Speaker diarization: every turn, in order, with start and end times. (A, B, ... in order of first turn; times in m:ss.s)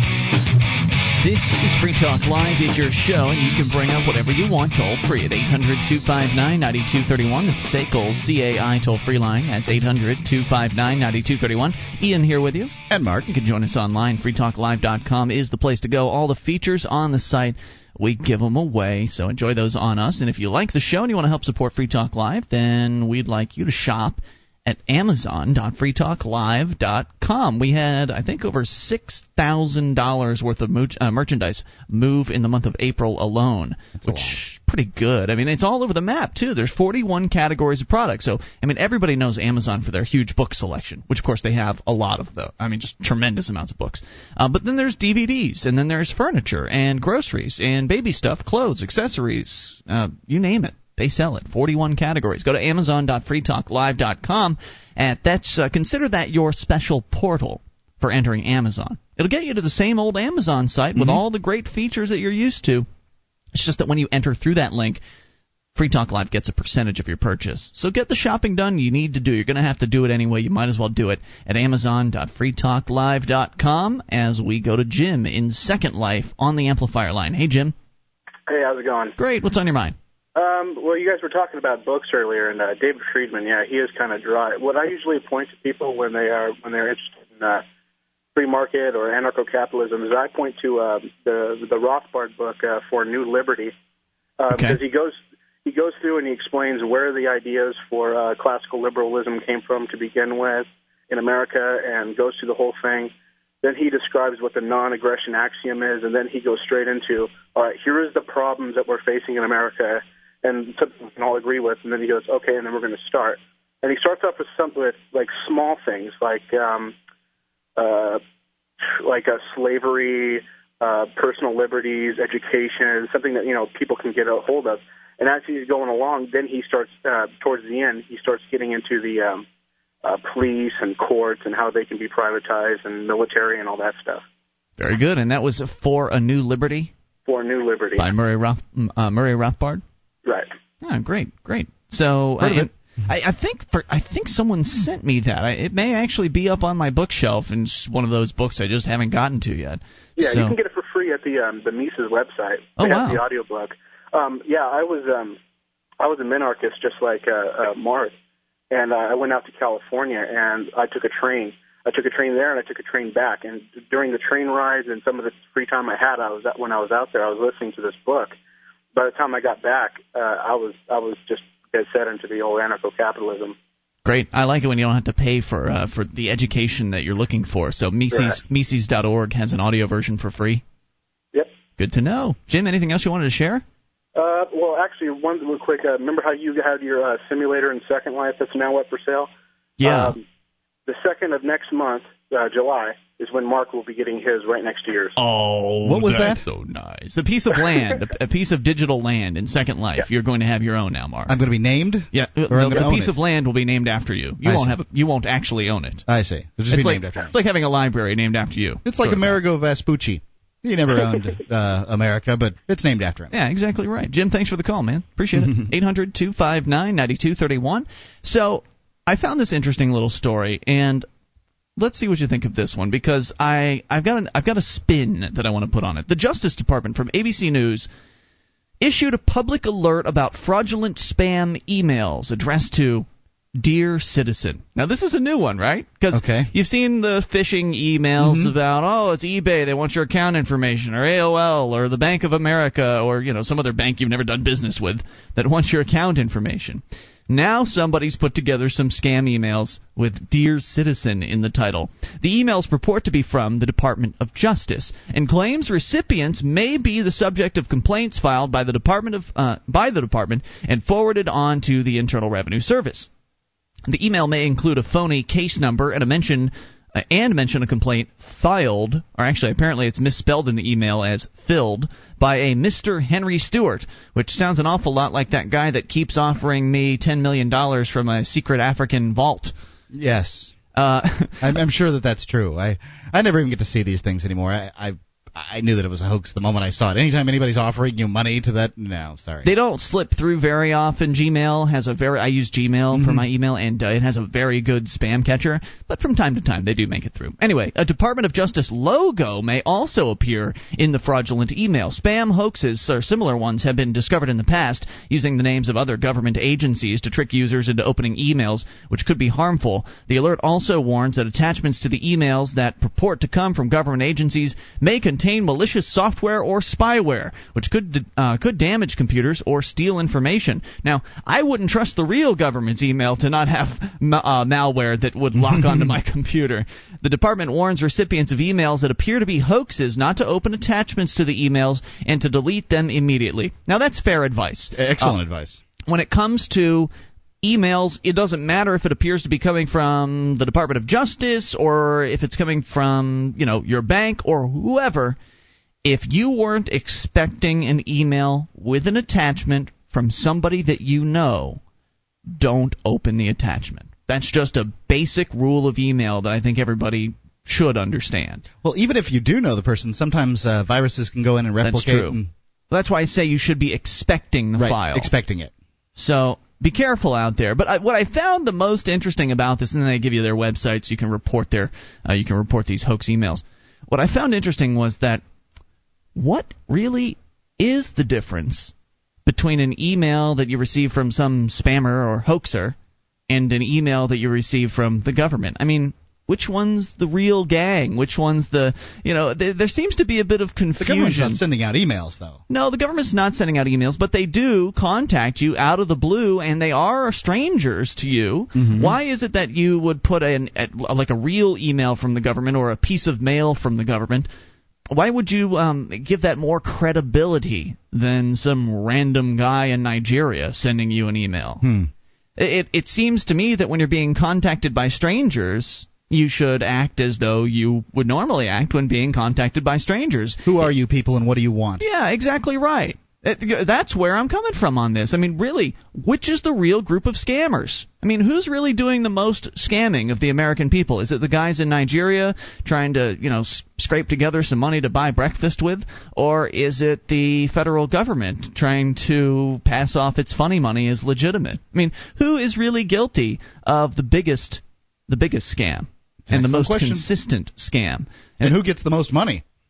0:01.2-0:12.7 A
0:12.9-0:13.3 B
0:13.3-1:02.9 A
0:34.0-0:34.4 B
1:00.9-1:01.2 B
1:03.5-1:05.0 A
1:05.7-1:17.7 A
1:18.5-1:19.2 C
1:19.2-1:20.0 A
1:20.3-1:27.6 C
1:28.3-1:33.7 C
1:34.4-1:56.9 C
1:34.5-1:34.8 A
1:57.8-1:58.2 C
1:59.0-2:09.4 C
2:10.0-2:14.2 C
2:14.8-2:16.9 A
2:17.2-2:18.1 C
2:18.0-2:19.8 A
2:20.8-2:30.6 A
2:22.4-2:22.7 B
2:30.2-2:35.4 C
2:32.8-2:33.2 A
2:36.0-2:38.1 C
2:38.7-2:48.3 C
2:48.9-2:53.6 C
2:54.0-3:00.6 A
2:58.1-2:58.4 C
3:01.8-3:03.6 A
3:04.2-3:09.3 C
3:09.8-3:10.2 A
3:09.8-3:10.2 C
3:10.8-3:15.1 C
3:15.2-3:21.4 A
3:15.8-3:16.4 B
3:21.3-3:23.2 B
3:22.1-3:26.0 A
3:24.4-3:24.8 B
3:26.1-3:27.3 B
3:26.7-3:29.4 A
3:28.8-3:33.3 B
3:33.3-3:41.0 A
3:35.3-3:35.7 B
3:41.8-3:47.9 A
3:48.8-4:23.1 A
3:56.1-3:56.5 B
3:58.2-3:58.5 B
4:23.9-4:39.5 A
4:39.9-4:40.6 B
4:40.7-4:41.5 A
4:41.4-4:49.5 B
4:49.4-5:35.2 A
4:52.9-4:53.2 B
5:25.4-5:25.9 B
5:34.7-5:35.6 B
5:35.8-5:36.9 A
5:37.4-5:45.2 A
5:45.8-5:51.6 A
5:52.3-5:58.4 A
5:58.6-6:02.3 B
6:01.6-6:02.2 A
6:02.7-6:05.1 A
6:04.6-6:05.5 B
6:06.0-6:15.2 A
6:16.1-6:18.7 A
6:19.2-6:22.8 A
6:23.3-6:31.4 A
6:30.8-6:32.4 B
6:32.5-6:44.3 A
6:38.5-6:39.0 B
6:44.9-6:51.6 A
6:51.6-6:51.9 B
6:52.4-7:00.7 A
7:00.4-7:01.8 B
7:01.8-7:28.5 A
7:26.3-7:27.1 B
7:28.4-7:29.4 B